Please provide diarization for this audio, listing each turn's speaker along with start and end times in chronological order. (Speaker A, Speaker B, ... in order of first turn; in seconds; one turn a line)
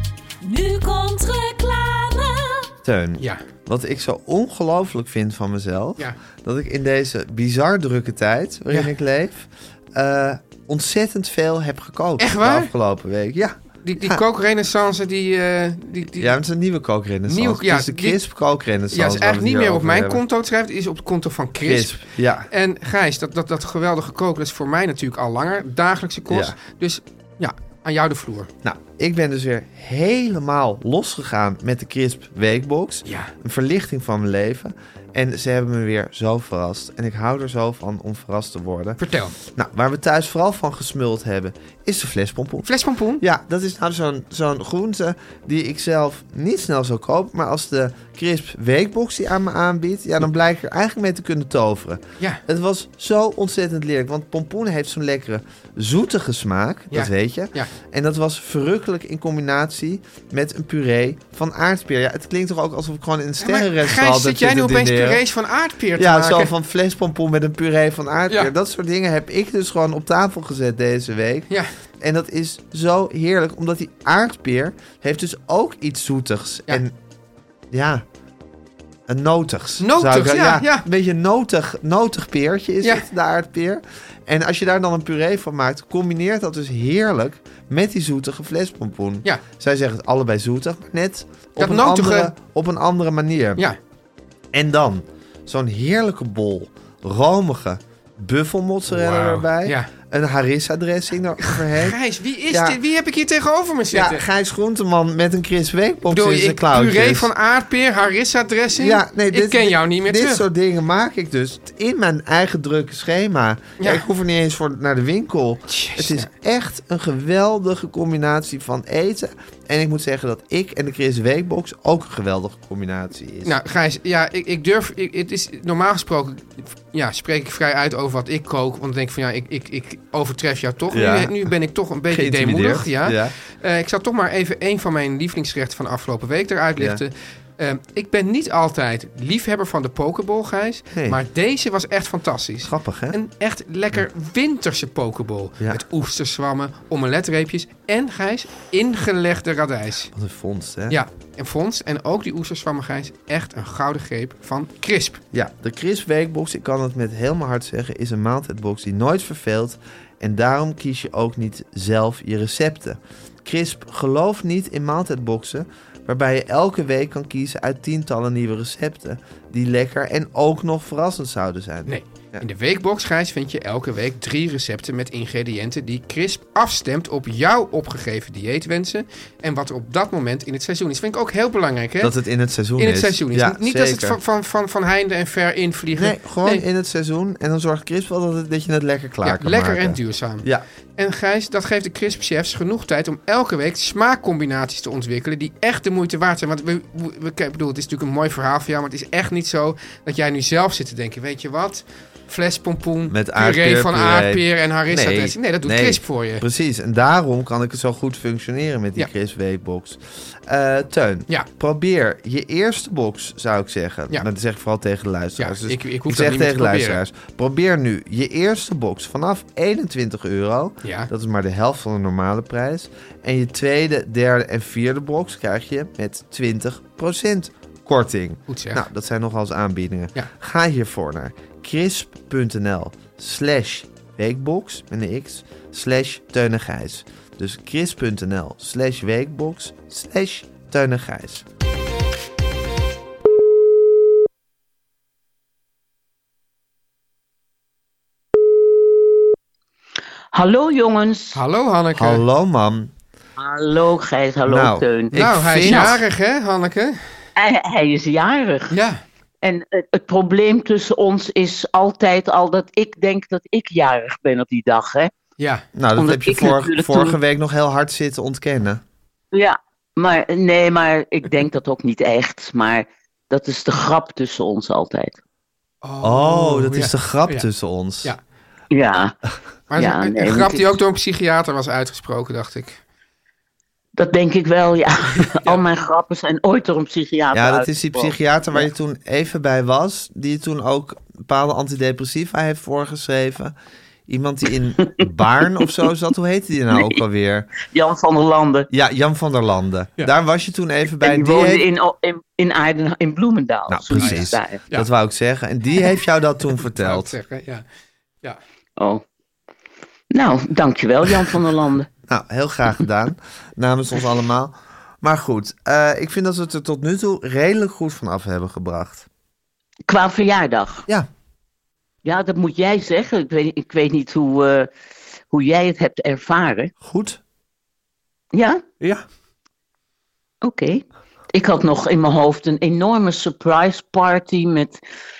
Speaker A: 0.4-2.7
Speaker B: 2.8-14.2
Speaker C: 12.2-12.7
Speaker C: 13.8-16.4
Speaker B: 16.1-20.2
Speaker C: 17.3-18.2
Speaker C: 18.9-28.5
Speaker B: 21.6-22.5
Speaker B: 26.3-26.6
Speaker B: 28.6-42.7
Speaker C: 33.0-33.3
Speaker C: 39.0-39.3
Speaker C: 42.6-43.2
Speaker B: 43.2-65.2
Speaker C: 56.9-57.7
Speaker C: 63.4-66.5
Speaker B: 66.0-76.9
Speaker B: 77.7-78.0
Speaker B: 79.1-93.6
Speaker C: 79.8-80.8
Speaker C: 82.8-83.1
Speaker C: 91.6-92.3
Speaker B: 94.5-102.0
Speaker C: 98.9-99.9
Speaker C: 101.4-104.2
Speaker B: 102.5-102.8
Speaker B: 103.9-107.3
Speaker C: 106.1-110.4
Speaker B: 108.8-123.5
Speaker C: 113.8-114.1
Speaker C: 115.7-116.3
Speaker C: 123.4-150.1
Speaker B: 130.9-131.5
Speaker B: 132.1-133.3
Speaker B: 136.8-137.0
Speaker B: 140.9-141.2
Speaker B: 142.6-143.2
Speaker B: 150.1-151.0
Speaker C: 150.9-155.2
Speaker B: 155.3-172.4
Speaker C: 171.8-182.1
Speaker B: 182.0-184.2
Speaker C: 182.8-186.6
Speaker B: 185.9-190.6
Speaker C: 189.2-190.4
Speaker C: 191.0-206.4
Speaker B: 203.1-241.4
Speaker C: 215.4-217.0
Speaker C: 220.8-221.1
Speaker C: 228.5-228.8
Speaker D: 250.3-251.4
Speaker C: 251.3-252.2
Speaker B: 251.9-252.9
Speaker D: 253.4-256.0
Speaker B: 254.5-256.0
Speaker C: 255.1-257.0
Speaker D: 257.4-258.7
Speaker C: 258.7-259.0
Speaker D: 259.4-265.1
Speaker C: 265.4-265.6
Speaker B: 265.7-268.8
Speaker D: 265.9-267.2
Speaker D: 269.3-275.2
Speaker C: 275.8-277.5
Speaker B: 276.0-278.1
Speaker D: 278.7-279.1
Speaker C: 279.7-282.8
Speaker D: 279.8-280.6
Speaker D: 284.0-288.7
Speaker C: 285.2-285.6
Speaker B: 287.3-293.5
Speaker B: 294.1-297.5
Speaker D: 296.7-297.0
Speaker D: 297.6-298.7
Speaker B: 298.7-301.6
Speaker D: 301.0-304.6
Speaker B: 303.7-307.1
Speaker C: 303.9-304.9
Speaker C: 306.8-307.6
Speaker D: 308.8-309.0
Speaker D: 310.1-311.9
Speaker B: 312.1-319.1
Speaker D: 319.9-320.9
Speaker D: 322.0-324.7
Speaker D: 325.3-326.7
Speaker B: 326.8-327.2
Speaker D: 328.3-328.6
Speaker D: 330.4-334.8